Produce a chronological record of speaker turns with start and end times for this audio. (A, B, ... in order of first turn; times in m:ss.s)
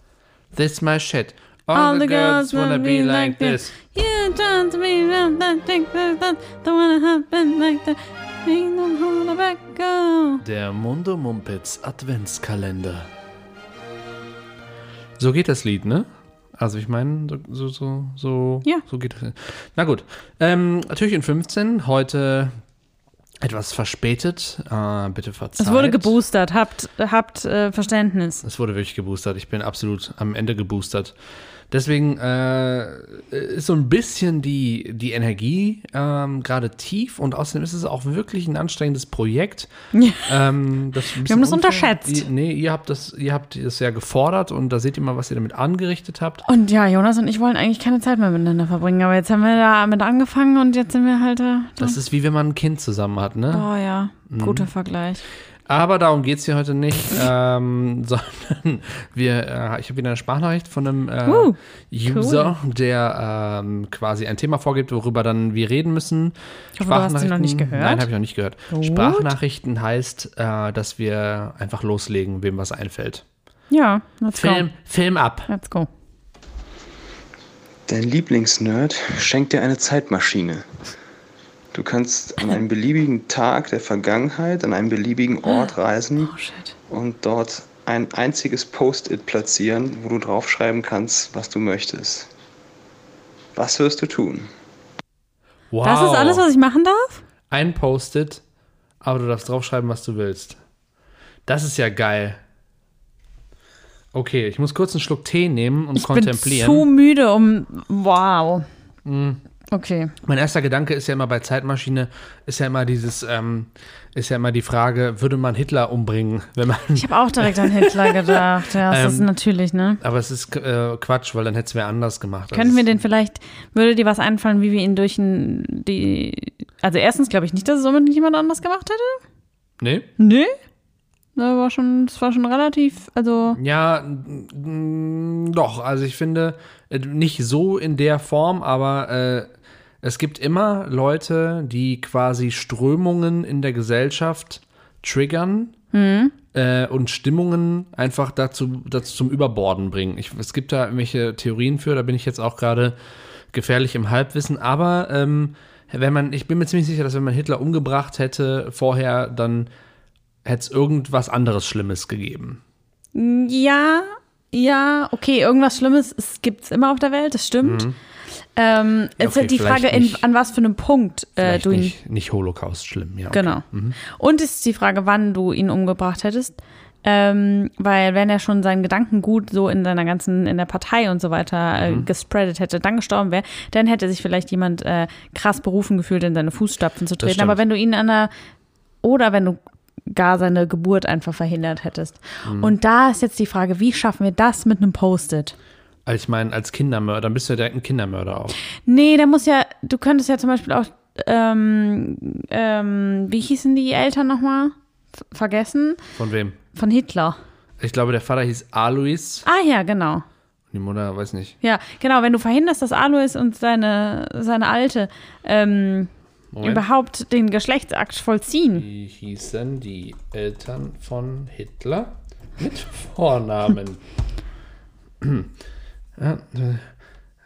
0:00.5-0:03.8 A
0:01.7-0:10.4 B
0:10.4-0:13.1 A
0:15.2-0:16.1 A
0:16.6-0:22.5 A
0:23.4-0:26.2 A
0:25.6-0:28.4 B
0:28.4-0:31.1 A
0:31.7-0:39.7 A
0:39.9-0:40.3 B
0:40.3-0:46.4 A
0:41.2-0:42.3 B
0:46.5-0:52.0 B
0:51.8-0:53.7 A
0:53.5-0:55.2 B
0:54.3-0:54.7 A
0:55.7-1:13.2 A
1:01.3-1:02.5 B
1:06.8-1:08.1 B
1:08.7-1:09.3 B
1:13.7-1:14.7 B
1:14.3-1:15.5 A
1:15.5-1:15.9 B
1:17.9-1:20.7 C
1:21.7-1:26.3 C
1:25.5-1:26.7 B
1:26.9-1:32.3 C
1:33.6-1:34.5 C
1:35.7-1:36.5 A
1:35.8-1:37.2 B
1:37.5-1:38.4 A
1:39.0-1:40.6 A
1:41.5-1:42.4 A
1:44.1-1:46.9 A
1:46.0-1:48.7 B
1:49.0-1:49.4 A
1:49.7-1:50.1 B
1:50.2-1:59.3 A
1:56.9-2:00.0 B
2:00.0-2:02.9 A
2:02.5-2:09.2 B
2:09.8-2:10.1 A
2:10.2-2:10.6 B
2:11.4-2:13.6 B
2:13.5-2:19.5 A
2:20.0-2:25.7 A
2:25.9-2:26.4 B
2:26.5-2:33.0 A
2:33.5-2:39.7 A
2:40.4-2:42.6 A
2:43.1-2:47.8 B
2:47.6-2:48.0 A
2:48.6-2:51.9 B
2:49.2-2:50.2 A
2:51.4-2:54.0 A
2:53.3-3:08.3 B
3:01.8-3:02.1 A
3:07.2-3:07.6 A
3:09.0-3:15.5 B
3:12.4-3:12.8 A
3:16.1-3:18.6 A
3:18.8-3:24.8 B
3:25.3-3:26.0 B
3:26.2-3:26.6 A
3:26.7-3:27.4 B
3:27.8-3:29.5 A
3:29.4-3:30.2 B
3:30.7-3:31.6 A
3:31.6-3:36.1 B
3:36.5-3:36.8 A
3:36.6-3:38.9 B
3:38.7-3:44.0 A
3:45.2-3:45.5 A
3:46.2-3:46.9 A